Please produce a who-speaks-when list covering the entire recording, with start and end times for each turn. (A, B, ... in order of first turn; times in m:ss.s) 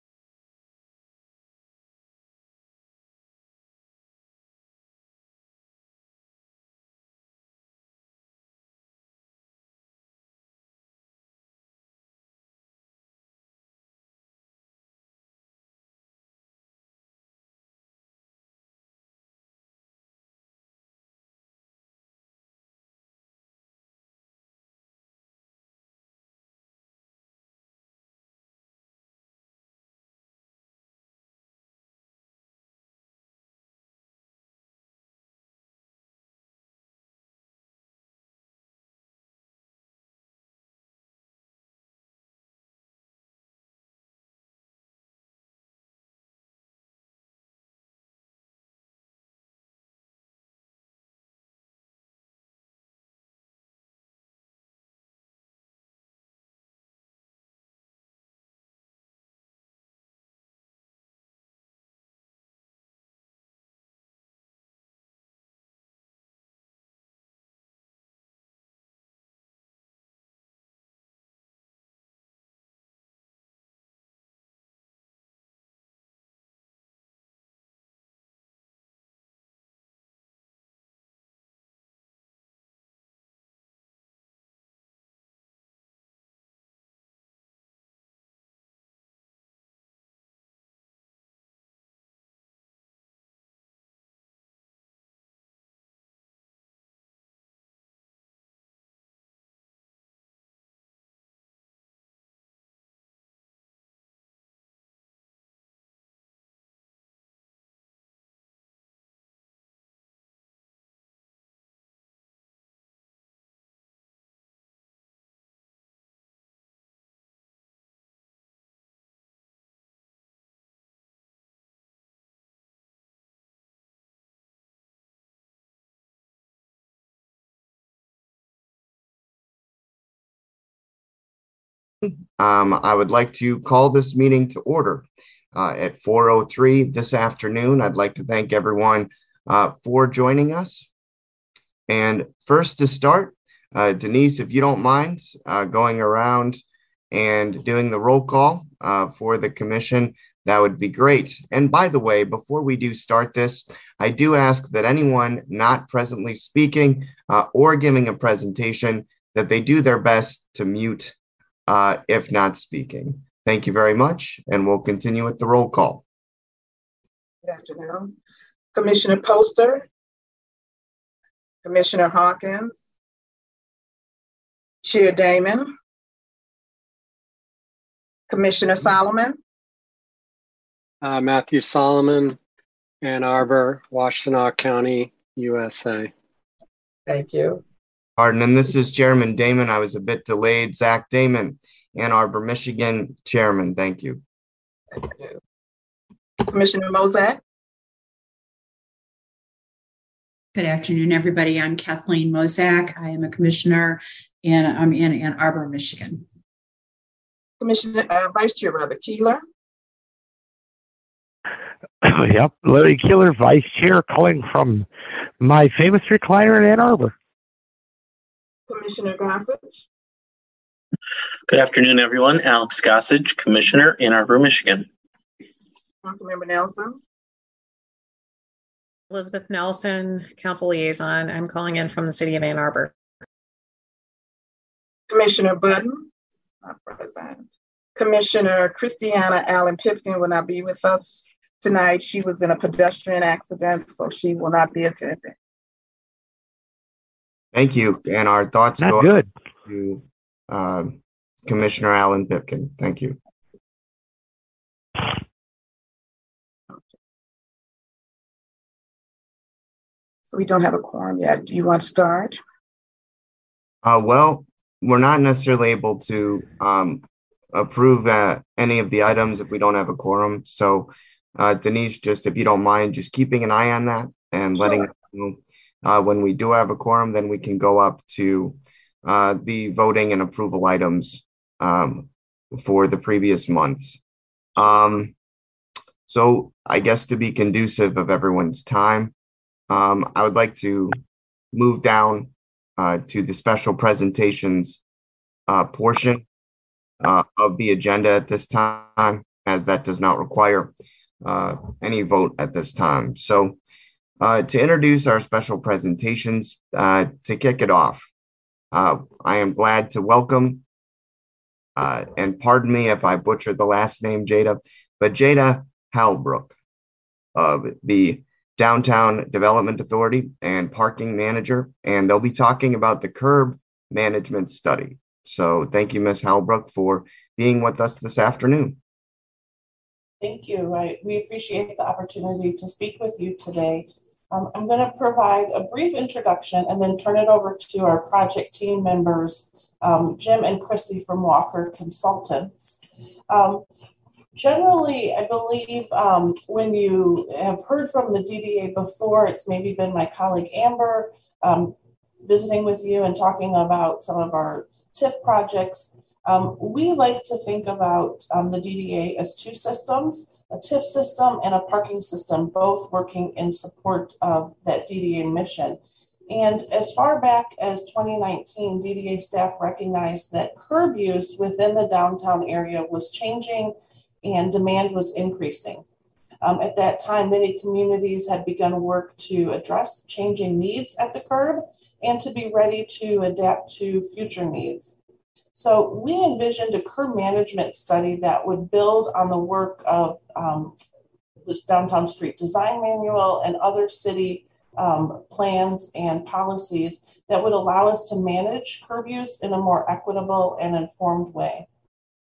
2:12.4-2:20.9 A
2:21.9-2:41.1 A
2:41.7-2:46.0 A
2:47.4-2:48.1 B
2:48.7-2:49.8 B
2:51.6-2:52.9 B
2:54.8-2:55.7 B
2:58.3-2:59.4 B
3:01.0-3:02.4 C
3:03.0-3:06.1 C
3:07.0-3:07.6 B
3:08.2-3:14.2 A
3:14.9-3:15.4 B
3:16.4-3:17.4 B
3:20.5-3:26.2 D
3:27.6-3:29.4 B
3:32.0-3:34.9 E
3:35.4-3:37.1 E
3:38.7-3:39.8 B
3:41.5-3:44.9 F
3:46.0-3:47.0 B
3:49.1-3:52.9 G
3:55.1-4:05.3 B
4:07.5-4:09.1 A
4:08.8-4:09.3 E
4:09.7-4:13.2 A
4:20.3-4:22.4 B
4:23.8-4:44.0 A
4:44.6-4:45.1 A
4:46.1-4:49.1 A
4:49.7-4:51.0 A
4:51.5-4:54.8 A
4:55.5-4:56.2 A
4:57.0-5:03.6 A
5:04.2-5:08.1 A
5:08.7-5:10.6 A
5:11.8-5:16.5 A
5:17.3-5:28.8 A
5:30.2-5:43.6 H
5:44.3-6:05.8 H
6:06.3-6:15.8 H
6:16.4-6:24.9 H
6:25.5-6:30.8 H
6:31.4-6:41.7 H